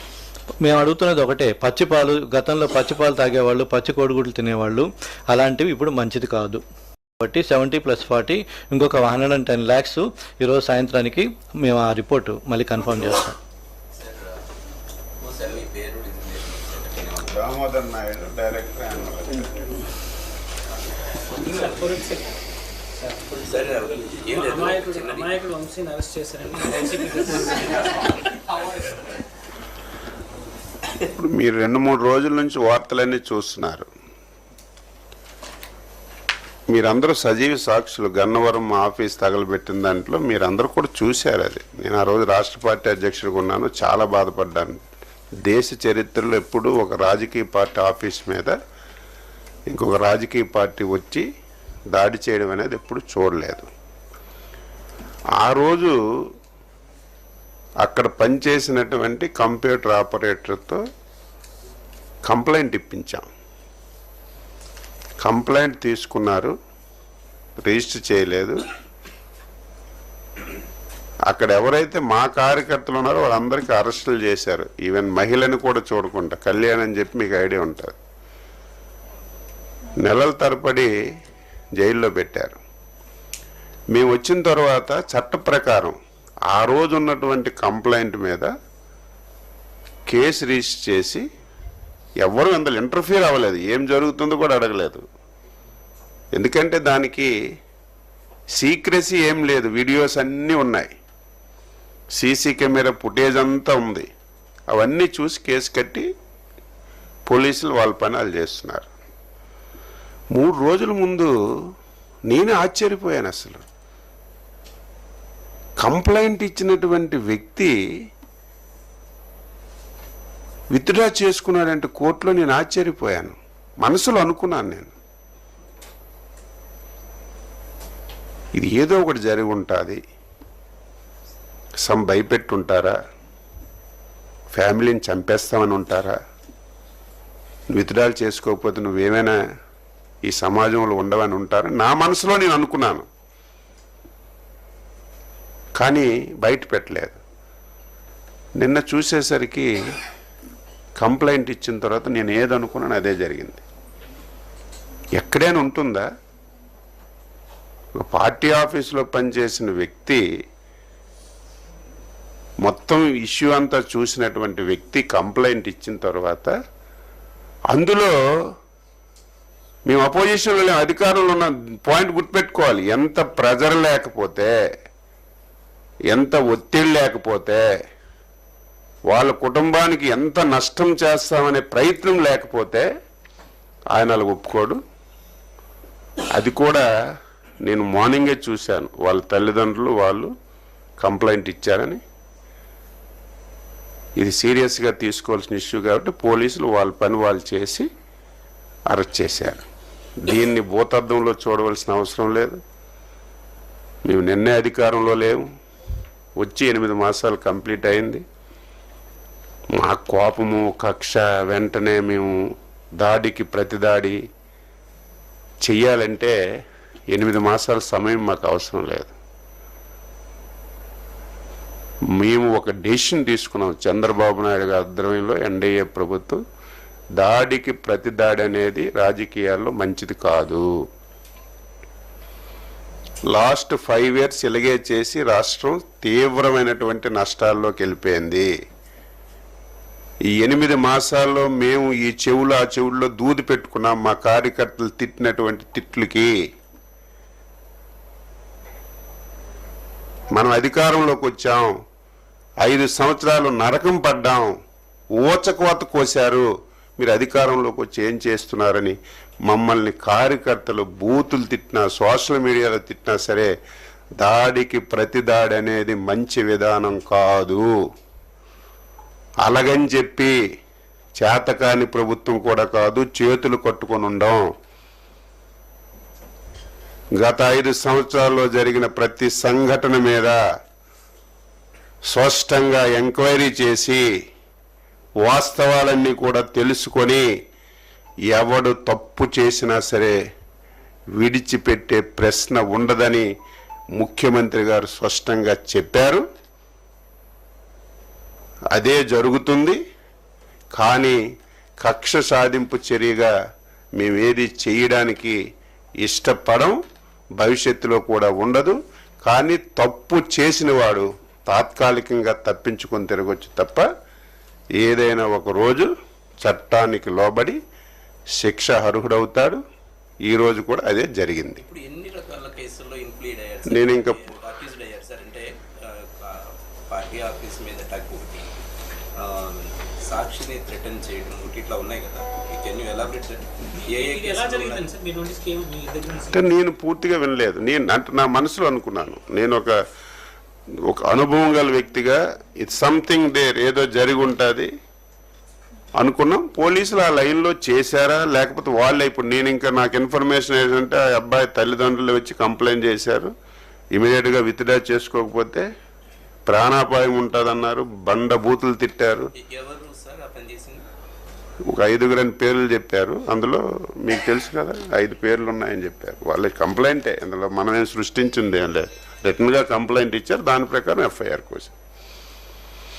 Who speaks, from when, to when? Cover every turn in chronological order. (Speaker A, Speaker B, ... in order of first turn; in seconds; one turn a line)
Speaker A: 0.6-6.6
Speaker A: 7.2-13.4
Speaker B: 14.0-14.4
Speaker B: 15.2-17.3
Speaker C: 17.3-19.6
Speaker B: 21.4-21.8
Speaker D: 21.6-22.2
Speaker B: 23.3-25.4
Speaker D: 24.4-27.6
Speaker C: 31.2-33.9
Speaker C: 36.7-44.9
Speaker C: 45.5-48.5
Speaker C: 49.7-51.3
Speaker C: 51.9-53.7
Speaker C: 55.4-56.0
Speaker C: 57.8-60.8
Speaker C: 62.3-63.3
Speaker C: 65.2-66.5
Speaker C: 67.6-68.6
Speaker C: 71.3-78.0
Speaker C: 80.0-80.9
Speaker C: 81.8-82.6
Speaker C: 83.9-86.0
Speaker C: 86.5-88.5
Speaker C: 90.1-91.2
Speaker C: 92.2-95.0
Speaker C: 96.4-97.3
Speaker C: 98.6-100.9
Speaker C: 102.2-104.1
Speaker C: 104.7-106.1
Speaker C: 107.3-108.9
Speaker C: 110.3-111.3
Speaker C: 112.3-113.6
Speaker C: 115.8-117.7
Speaker C: 120.7-124.9
Speaker C: 128.6-130.0
Speaker C: 131.8-133.0
Speaker C: 134.5-136.2
Speaker C: 137.7-139.4
Speaker C: 140.3-143.1
Speaker C: 145.8-147.2
Speaker C: 148.6-149.7
Speaker C: 151.0-153.6
Speaker C: 155.2-156.1
Speaker C: 158.0-160.2
Speaker C: 162.6-166.5
Speaker C: 167.7-168.1
Speaker C: 169.9-174.5
Speaker C: 176.1-177.6
Speaker C: 179.1-182.9
Speaker C: 183.9-184.8
Speaker C: 186.3-186.8
Speaker C: 187.7-190.3
Speaker C: 191.0-192.0
Speaker C: 194.2-197.9
Speaker C: 198.9-199.7
Speaker C: 200.2-202.6
Speaker C: 204.1-205.4
Speaker C: 206.4-208.2
Speaker C: 209.8-212.4
Speaker C: 213.0-214.2
Speaker C: 215.7-216.3
Speaker C: 217.1-219.1
Speaker C: 222.2-226.4
Speaker C: 227.2-230.6
Speaker C: 233.3-238.5
Speaker C: 240.4-246.3
Speaker C: 250.3-251.7
Speaker C: 252.6-254.5
Speaker C: 255.2-256.5
Speaker C: 257.0-259.0
Speaker C: 259.5-263.5
Speaker C: 264.2-267.7
Speaker C: 269.4-270.3
Speaker C: 271.2-274.4
Speaker C: 277.2-280.4
Speaker C: 282.1-284.0
Speaker C: 285.2-287.2
Speaker C: 288.3-290.1
Speaker C: 291.2-293.3
Speaker C: 294.0-296.2
Speaker C: 298.7-299.8
Speaker C: 300.8-301.2
Speaker C: 301.8-303.3
Speaker C: 304.0-305.4
Speaker C: 306.0-306.8
Speaker C: 307.4-313.9
Speaker C: 314.8-315.9
Speaker C: 316.4-317.6
Speaker C: 318.4-319.6
Speaker C: 320.3-321.6
Speaker B: 321.6-328.5
Speaker C: 323.7-324.2
Speaker B: 329.2-334.9
Speaker D: 334.0-336.4
Speaker C: 336.3-339.7
Speaker C: 340.9-344.7
Speaker C: 346.0-353.3
Speaker C: 353.9-355.7
Speaker C: 356.5-359.3
Speaker B: 359.4-360.8
Speaker C: 361.7-371.7